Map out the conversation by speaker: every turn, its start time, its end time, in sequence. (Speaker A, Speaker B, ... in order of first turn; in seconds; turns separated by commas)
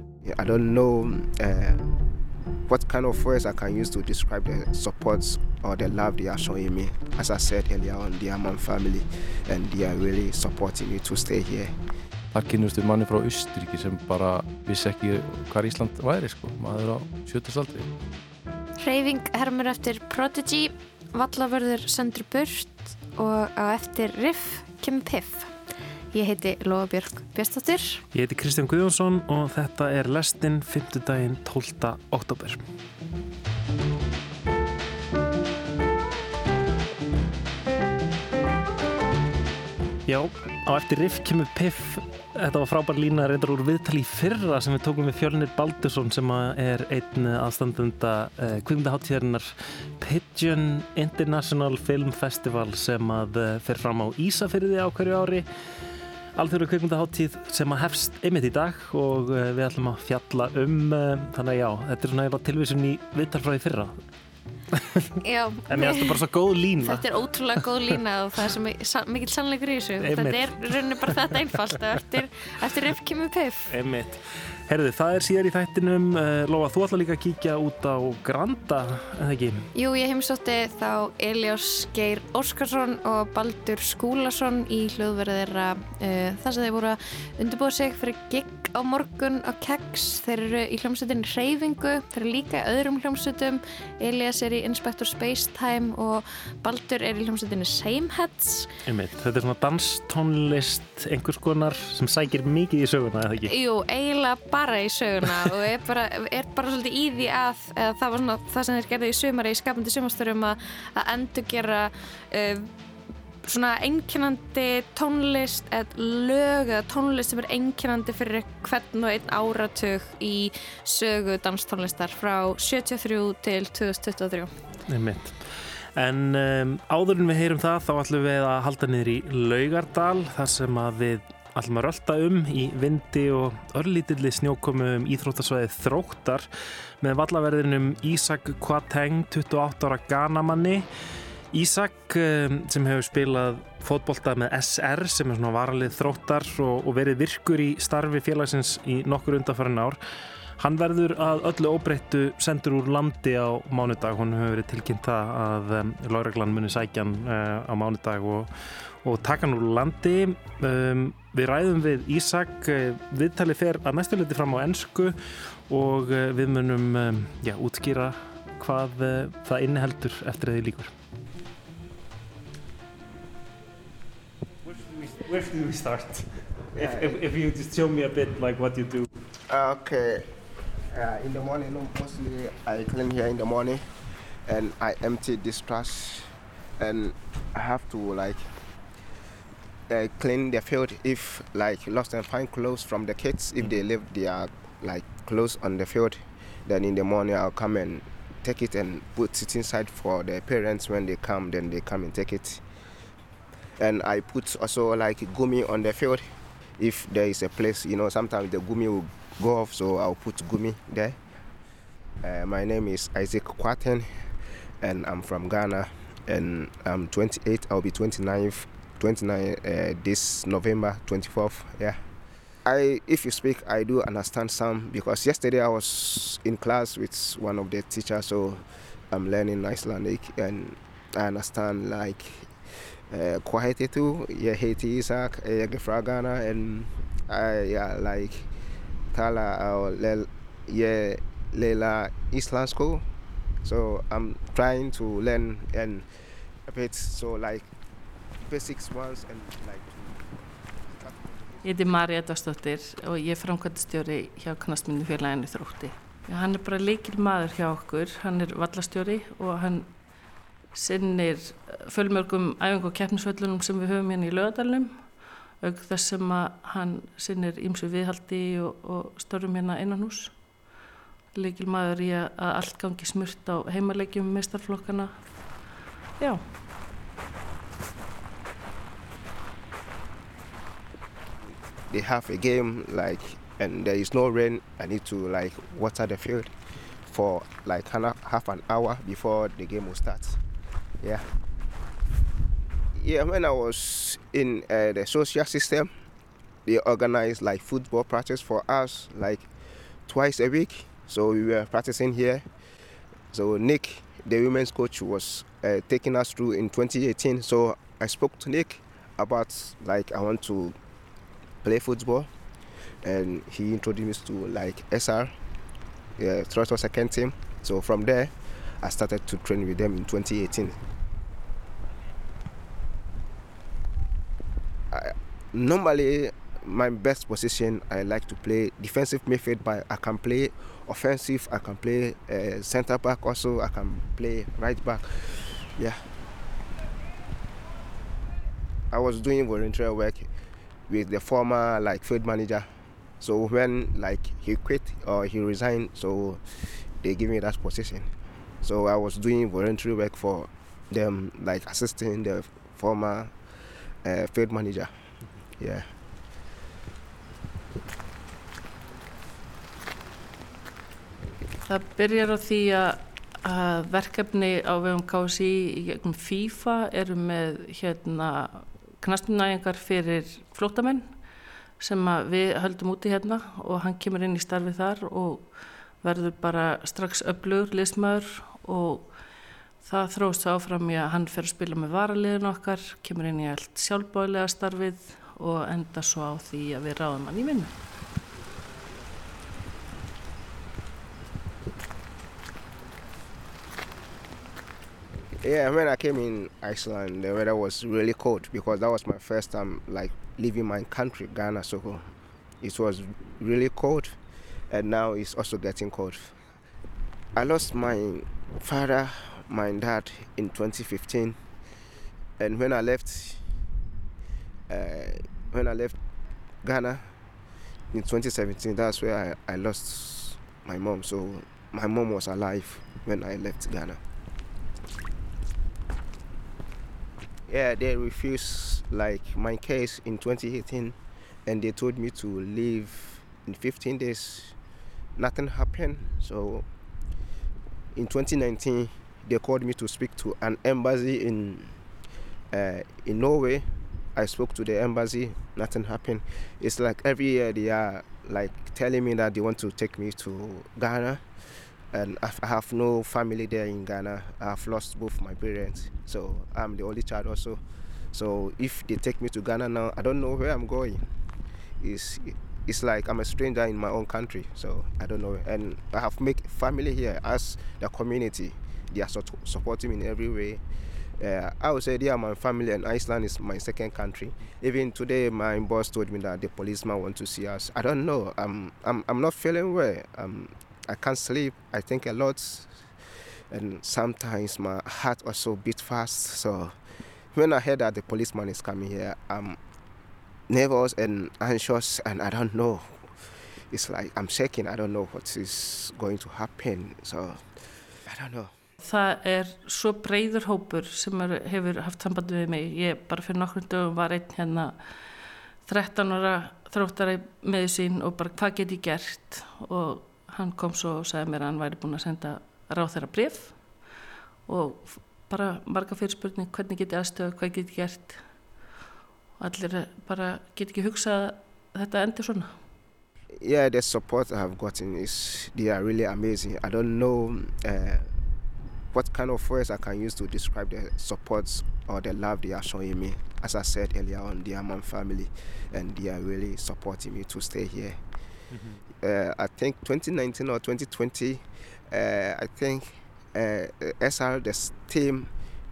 Speaker A: 0.2-1.9, Speaker A: 2.7-11.8, Speaker B: 12.3-17.9, Speaker C: 18.8-25.5, Speaker C: 26.1-28.0, Speaker D: 28.1-32.6, Speaker D: 40.1-55.5, Speaker D: 56.4-64.0, Speaker D: 64.7-65.0, Speaker C: 65.2-66.2, Speaker D: 65.7-67.1, Speaker C: 66.8-73.7, Speaker D: 70.0-71.1, Speaker D: 73.7-79.7, Speaker C: 79.8-98.7, Speaker D: 98.9-103.5, Speaker C: 103.5-112.7, Speaker C: 113.5-124.5, Speaker D: 124.9-136.5, Speaker D: 137.0-140.9, Speaker D: 141.5-150.0, Speaker D: 150.6-165.2, Speaker D: 165.7-170.9, Speaker D: 174.7-179.1, Speaker A: 176.8-177.2, Speaker A: 179.5-180.3, Speaker A: 180.9-183.9, Speaker A: 184.5-188.5, Speaker A: 189.9-202.6, Speaker A: 203.8-206.3, Speaker A: 206.8-211.2, Speaker A: 212.2-214.3, Speaker A: 214.8-222.0, Speaker A: 222.7-238.5, Speaker A: 239.1-243.0, Speaker A: 243.6-246.1, Speaker A: 246.7-247.7, Speaker A: 248.4-250.3, Speaker A: 250.9-251.6, Speaker E: 251.6-260.1, Speaker E: 260.7-270.8, Speaker E: 271.3-275.6, Speaker E: 276.2-276.5, Speaker A: 281.9-286.6, Speaker A: 287.1-290.4, Speaker A: 291.0-291.3, Speaker A: 292.9-295.9, Speaker A: 296.7-299.5, Speaker A: 300.1-302.4, Speaker A: 303.3-310.8, Speaker A: 311.6-312.3, Speaker A: 313.0-315.3, Speaker A: 316.2-320.8, Speaker A: 324.9-336.0, Speaker A: 338.9-340.3, Speaker A: 340.9-348.1, Speaker A: 348.6-353.3, Speaker A: 354.0-354.9, Speaker A: 355.6-355.9, Speaker E: 361.6-387.7, Speaker A: 395.4-402.1, Speaker A: 402.6-404.2, Speaker A: 404.7-406.4, Speaker A: 407.4-411.4, Speaker A: 412.4-413.4, Speaker A: 414.7-416.0, Speaker A: 416.6-417.1, Speaker A: 417.9-424.0, Speaker A: 427.5-434.6, Speaker A: 435.2-436.7, Speaker A: 438.0-441.8, Speaker A: 442.5-451.2, Speaker A: 451.9-457.6, Speaker A: 458.1-461.0, Speaker A: 461.8-470.6, Speaker A: 471.2-482.9, Speaker A: 483.5-486.8, Speaker A: 487.3-489.6, Speaker A: 490.5-493.0, Speaker A: 493.7-497.4, Speaker A: 498.1-498.5, Speaker E: 498.8-505.1, Speaker E: 505.6-513.9, Speaker E: 514.5-518.7, Speaker E: 519.4-522.7, Speaker A: 523.4-528.1, Speaker A: 528.9-538.0, Speaker D: 538.5-538.8, Speaker A: 539.0-545.3